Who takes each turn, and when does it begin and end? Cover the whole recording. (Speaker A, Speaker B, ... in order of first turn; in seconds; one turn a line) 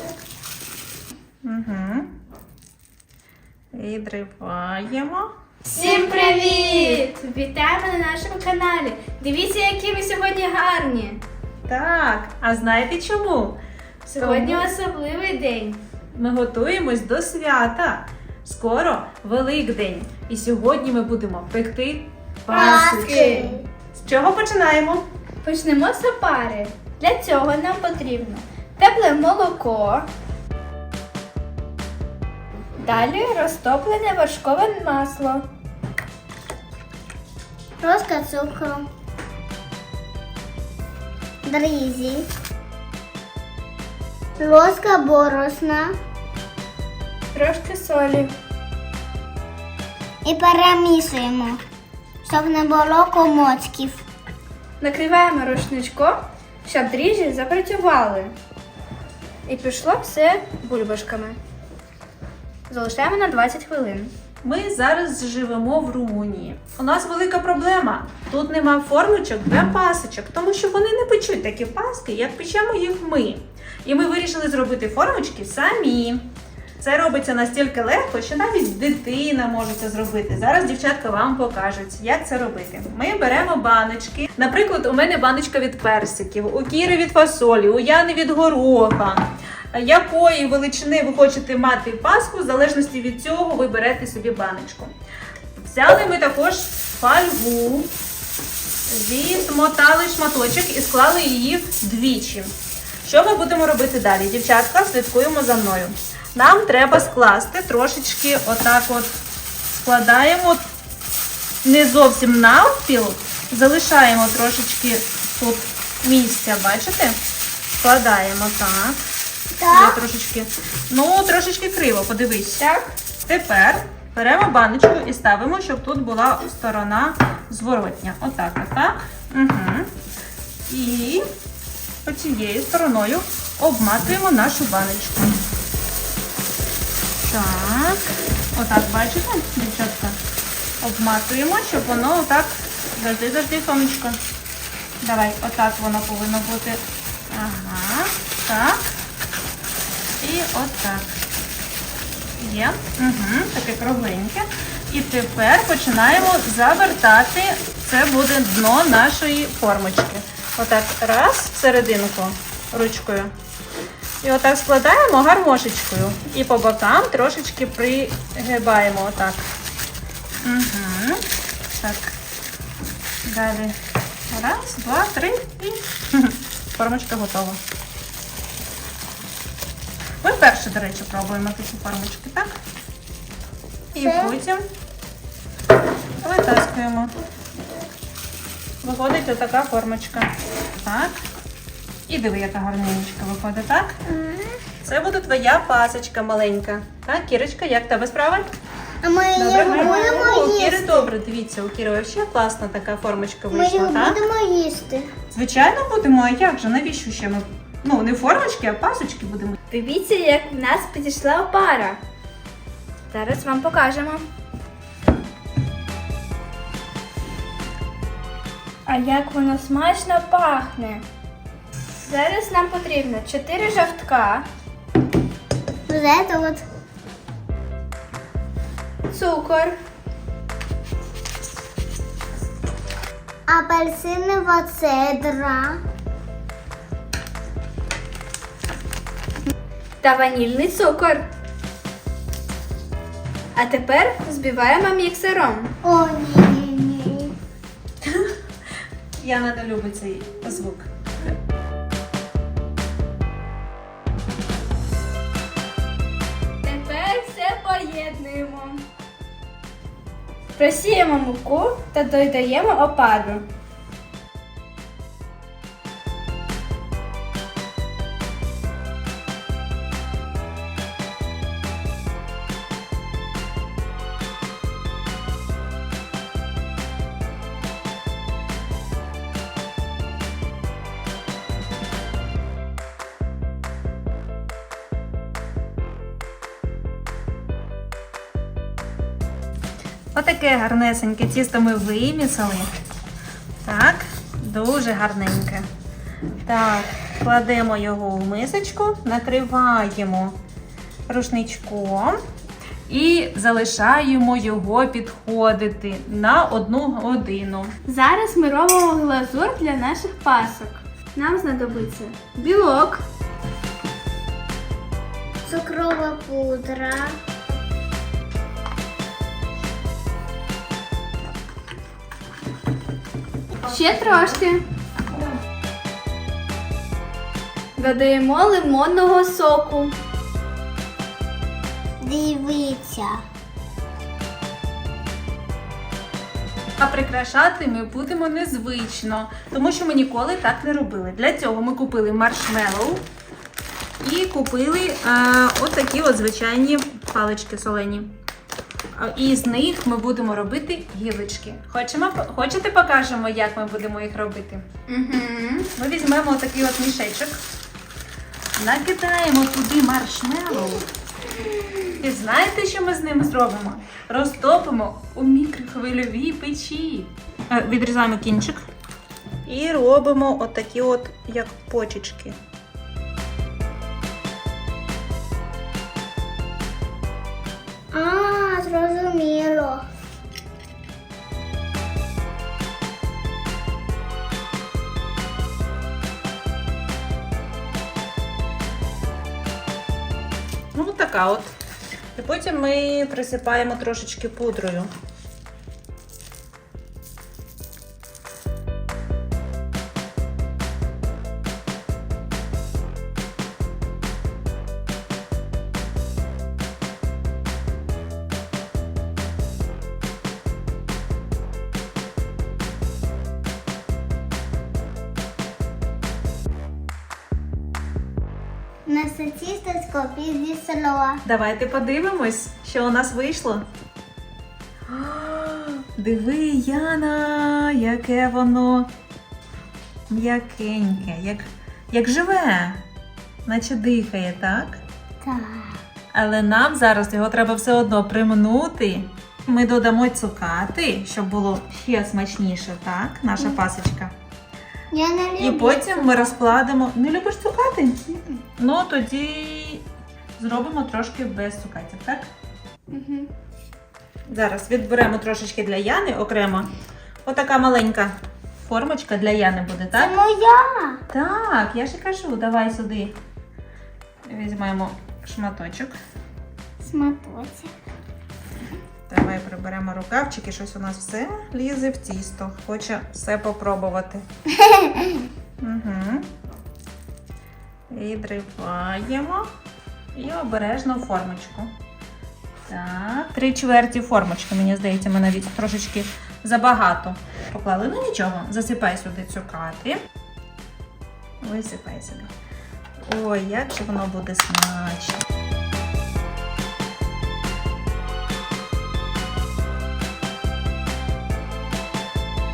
Speaker A: 1.4-2.1
Speaker A: 3.7-5.3
Speaker B: 5.7-11.2
Speaker C: 5.8-6.7
Speaker A: 11.7-14.7
Speaker B: 14.1-15.8
Speaker A: 16.1-25.0
Speaker B: 22.5-23.6
Speaker C: 22.5-23.6
Speaker B: 25.4-30.1
Speaker B: 32.8-35.4
Speaker C: 37.8-38.9
Speaker C: 41.4-42.3
Speaker C: 44.4-45.9
Speaker B: 47.3-48.3
Speaker C: 50.2-51.6
Speaker C: 52.2-54.0
Speaker B: 54.8-58.3
Speaker B: 59.5-61.4
Speaker B: 62.7-64.1
Speaker A: 64.4-94.9
Speaker A: 95.5-97.9
Speaker A: 98.9-110.6
Speaker A: 111.6-117.2
Speaker A: 117.8-119.0
Speaker C: 119.6-120.0
Speaker A: 119.7-122.6
Speaker B: 122.6-122.9
Speaker A: 123.2-129.9
Speaker A: 130.7-131.3
Speaker A: 132.0-135.4
Speaker A: 137.2-140.2
Speaker A: 140.8-144.2
Speaker A: 145.0-148.8
Speaker A: 150.2-151.2
Speaker A: 152.4-163.3
Speaker A: 164.2-169.5
Speaker A: 170.4-172.1
Speaker A: 173.2-173.8
Speaker A: 174.3-177.6
Speaker A: 180.2-182.5
Speaker C: 183.9-184.3
Speaker A: 183.9-184.6
Speaker A: 186.2-187.1
Speaker A: 188.8-191.2
Speaker A: 192.1-194.0
Speaker C: 194.1-194.6
Speaker A: 194.8-198.5
Speaker C: 199.0-201.1
Speaker A: 199.3-204.2
Speaker B: 199.7-200.1
Speaker C: 203.5-205.1
Speaker A: 205.3-209.6
Speaker B: 209.7-212.0
Speaker B: 213.1-214.2
Speaker B: 218.9-221.0
Speaker B: 222.0-224.4
Speaker C: 225.9-226.6
Speaker B: 229.1-229.8
Speaker C: 233.5-235.8
Speaker B: 240.0-241.3
Speaker B: 243.5-245.7
Speaker C: 245.8-247.3
Speaker A: 248.0-248.3
Speaker A: 249.2-250.9
Speaker B: 256.6-258.9
Speaker B: 260.5-263.4
Speaker A: 290.1-292.7
Speaker A: 293.6-295.6
Speaker A: 296.4-300.3
Speaker A: 301.1-302.2
Speaker A: 302.9-307.7
Speaker B: 307.8-313.0
Speaker C: 315.4-317.1
Speaker B: 323.6-324.6
Speaker B: 327.8-329.9
Speaker C: 332.0-333.2
Speaker A: 336.8-343.0
Speaker A: 344.0-348.1
Speaker A: 348.9-354.8
Speaker B: 354.9-355.6
Speaker A: 355.7-357.4
Speaker A: 358.6-360.9
Speaker A: 362.0-368.6
Speaker A: 369.4-372.4
Speaker C: 377.9-379.9
Speaker A: 390.7-391.5
Speaker A: 392.1-394.9
Speaker C: 418.9-421.2
Speaker A: 421.2-423.7
Speaker A: 424.9-428.9
Speaker A: 430.1-432.8
Speaker A: 433.4-434.8
Speaker C: 435.2-435.8
Speaker A: 436.1-444.1
Speaker C: 444.9-446.5
Speaker A: 445.4-449.9
Speaker A: 450.4-452.3
Speaker A: 454.3-456.7
Speaker A: 457.2-460.2
Speaker C: 459.9-461.0
Speaker A: 461.1-463.1
Speaker A: 464.2-466.0
Speaker C: 466.8-467.7
Speaker A: 469.1-474.2
Speaker C: 474.6-475.2
Speaker A: 475.6-476.3
Speaker A: 477.9-479.5
Speaker A: 480.1-481.7
Speaker A: 482.7-490.0
Speaker A: 491.4-492.3
Speaker A: 493.0-495.2